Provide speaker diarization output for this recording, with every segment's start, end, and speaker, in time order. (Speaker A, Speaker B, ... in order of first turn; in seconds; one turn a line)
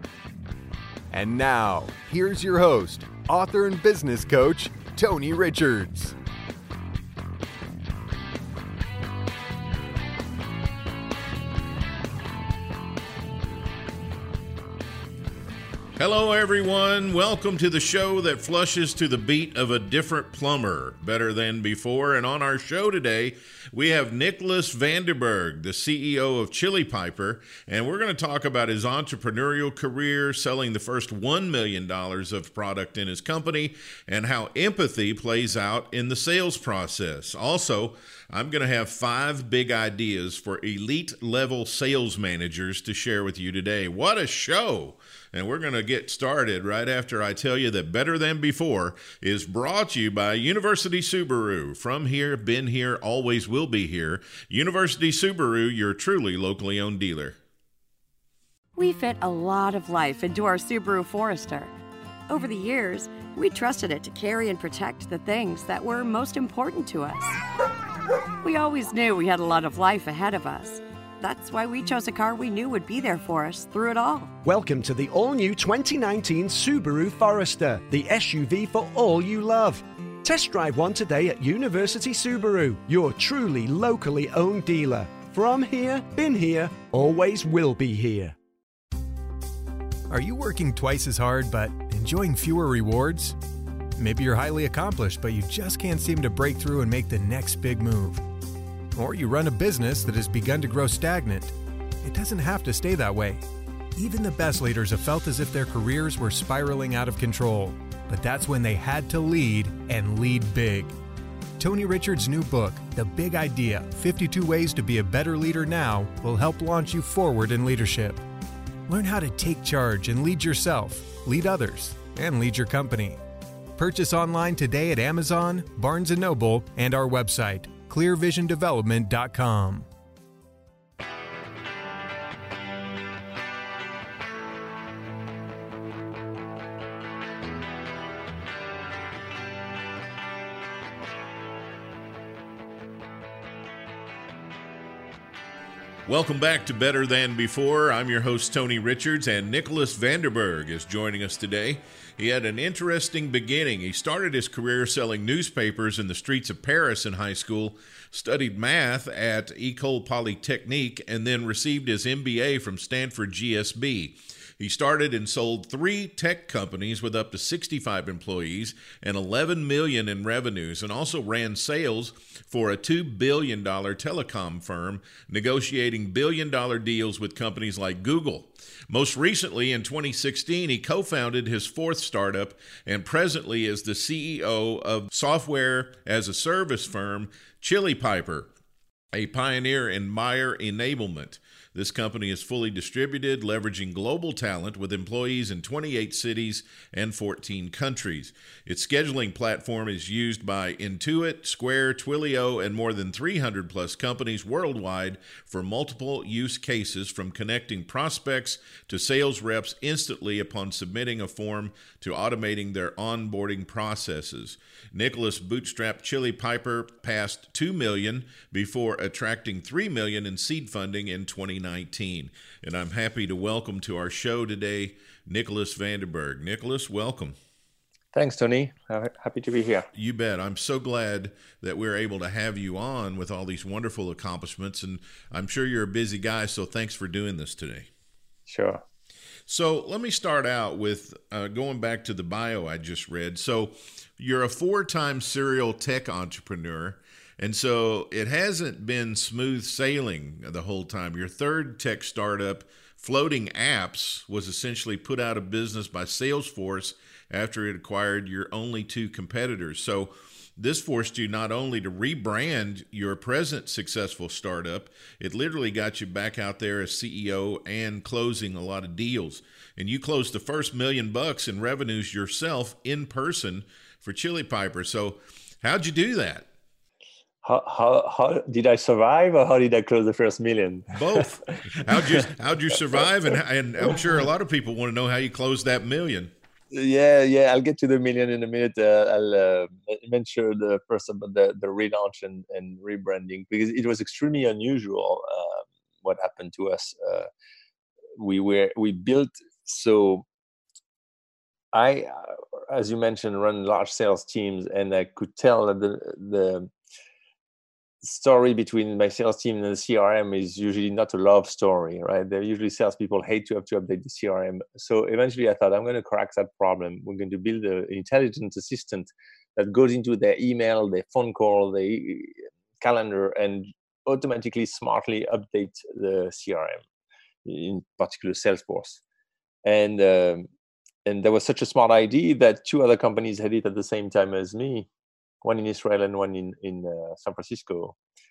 Speaker A: 1.1-6.2
Speaker B: 16.0-57.4
Speaker C: 58.8-61.7
Speaker C: 62.3-67.3
Speaker C: 68.4-74.3
Speaker D: 74.4-88.3
Speaker A: 90.1-93.4
Speaker A: 94.0-98.3
Speaker A: 98.9-103.4
Speaker A: 104.0-110.9
Speaker A: 111.6-118.2
Speaker A: 118.9-123.2
Speaker A: 123.8-129.9
Speaker B: 146.1-188.5
Speaker B: 189.1-227.4
Speaker E: 228.1-229.9
Speaker B: 229.9-237.9
Speaker E: 238.5-238.8
Speaker B: 239.5-276.5
Speaker E: 277.4-281.2
Speaker B: 280.9-286.3
Speaker E: 281.9-282.2
Speaker E: 286.7-297.3
Speaker E: 298.2-300.2
Speaker E: 301.7-306.7
Speaker E: 308.0-326.8
Speaker E: 327.4-329.0
Speaker E: 329.6-330.5
Speaker E: 331.1-334.9
Speaker E: 335.4-338.0